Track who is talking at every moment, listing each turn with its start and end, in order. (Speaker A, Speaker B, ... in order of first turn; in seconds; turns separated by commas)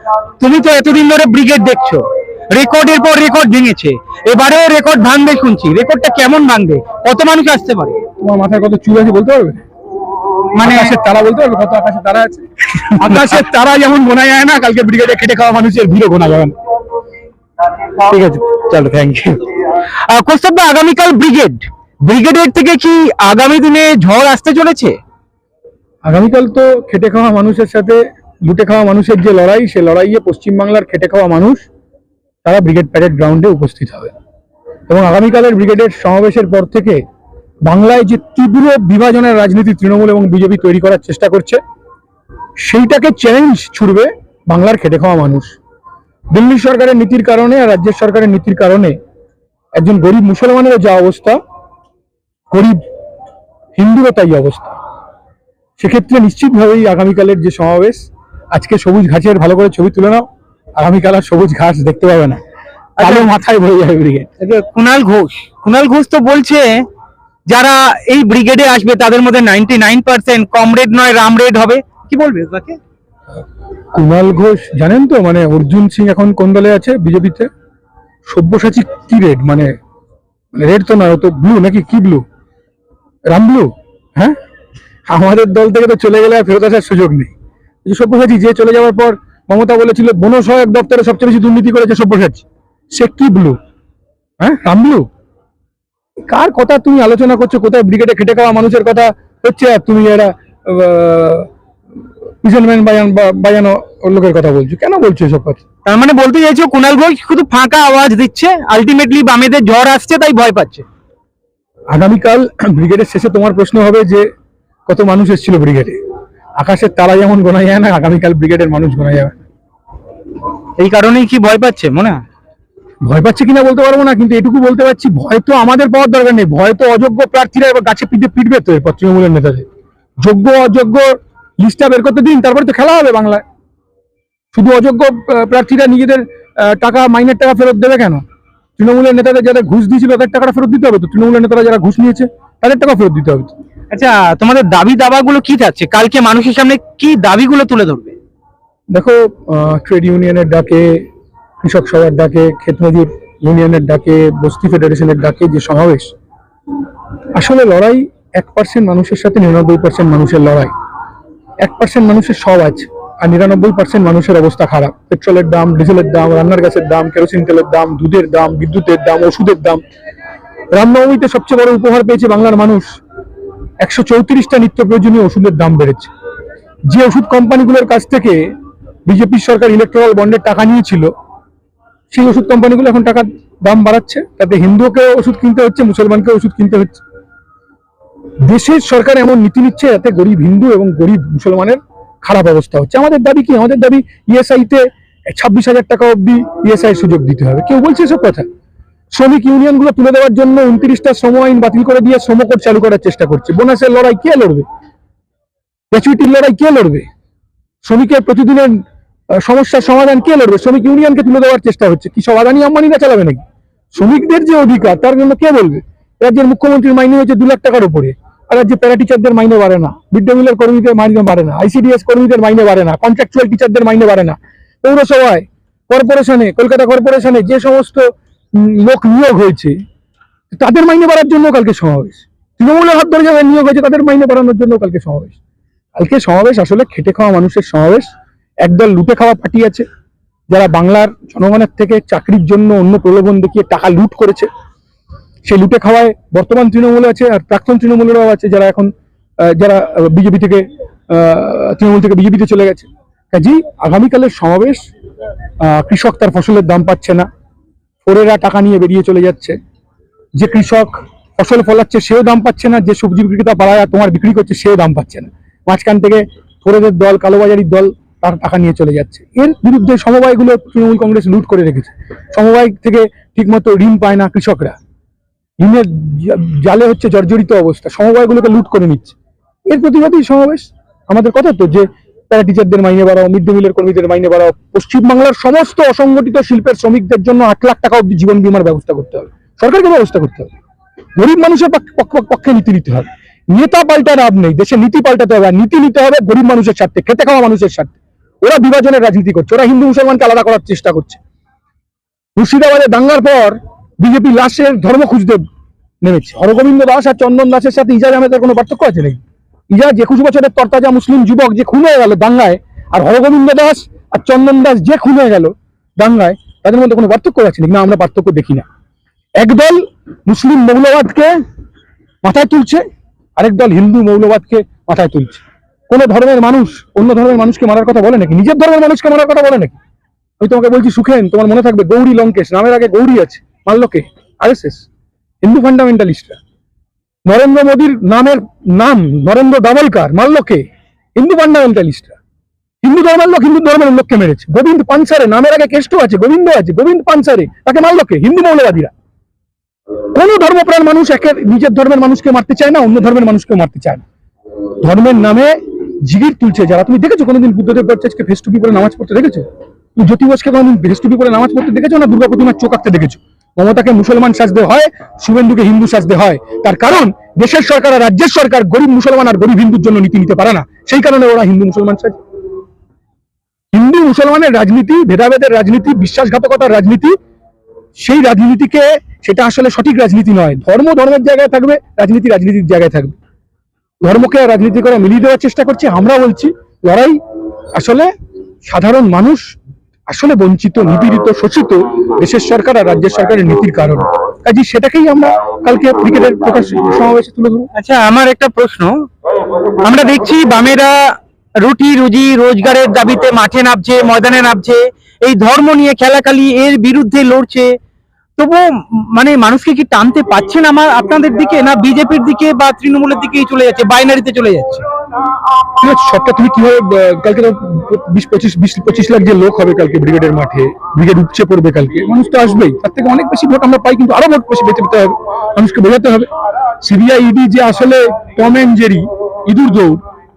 Speaker A: 0.4-8.0, Speaker B: 8.2-9.6, Speaker A: 10.6-10.9, Speaker B: 10.6-16.5, Speaker A: 13.0-13.4, Speaker A: 17.9-25.0, Speaker B: 26.1-31.7, Speaker B: 32.5-34.1, Speaker B: 34.9-37.0, Speaker B: 37.7-41.6, Speaker B: 42.6-45.5, Speaker B: 46.3-49.0, Speaker B: 49.8-51.4, Speaker B: 52.5-52.8, Speaker B: 53.8-54.8, Speaker B: 55.8-60.2, Speaker B: 60.8-62.4, Speaker A: 63.0-63.3, Speaker B: 63.0-64.3, Speaker A: 64.4-66.8, Speaker A: 67.5-72.8, Speaker B: 74.0-77.5, Speaker B: 78.3-79.7, Speaker B: 80.5-82.2, Speaker B: 83.3-84.4, Speaker B: 85.1-87.3, Speaker B: 87.8-93.6, Speaker B: 94.4-95.0, Speaker B: 96.3-101.5, Speaker B: 102.4-105.6, Speaker A: 105.8-110.8, Speaker B: 111.9-114.3, Speaker B: 114.9-116.0, Speaker B: 116.6-119.5, Speaker A: 120.8-122.2, Speaker B: 123.0-129.7, Speaker B: 130.2-133.4, Speaker B: 134.5-138.2, Speaker B: 138.8-143.5, Speaker A: 143.9-148.2, Speaker B: 148.9-151.1, Speaker B: 151.6-156.1, Speaker B: 157.4-160.7, Speaker B: 161.6-169.8, Speaker B: 170.7-172.9, Speaker B: 173.8-176.1, Speaker B: 176.9-178.5, Speaker B: 179.1-181.1, Speaker B: 182.1-187.0, Speaker B: 188.5-198.4, Speaker B: 199.1-204.7, Speaker B: 205.9-207.1, Speaker B: 207.8-208.8, Speaker B: 209.4-213.4, Speaker B: 213.9-229.8, Speaker B: 230.5-235.4, Speaker B: 236.0-238.1, Speaker B: 238.6-239.8, Speaker B: 240.5-244.5, Speaker B: 245.5-254.9, Speaker B: 255.6-257.3, Speaker B: 258.0-259.6, Speaker B: 260.4-274.8, Speaker B: 275.6-279.1, Speaker B: 279.7-290.5, Speaker B: 291.2-301.2, Speaker B: 302.4-305.4, Speaker B: 306.0-318.6, Speaker B: 319.4-321.3, Speaker B: 322.2-322.8, Speaker B: 323.4-329.8, Speaker B: 330.4-334.9, Speaker B: 335.4-336.4, Speaker B: 337.3-340.6, Speaker B: 341.2-342.2, Speaker B: 342.8-348.9, Speaker B: 350.1-354.0, Speaker B: 354.8-372.2, Speaker B: 373.7-377.1, Speaker B: 378.0-383.1, Speaker B: 384.0-387.2, Speaker B: 387.8-388.1, Speaker B: 388.7-389.5, Speaker B: 390.1-397.7, Speaker A: 397.7-399.0, Speaker A: 399.8-407.8, Speaker A: 408.4-414.8, Speaker B: 415.8-426.3, Speaker B: 426.8-430.0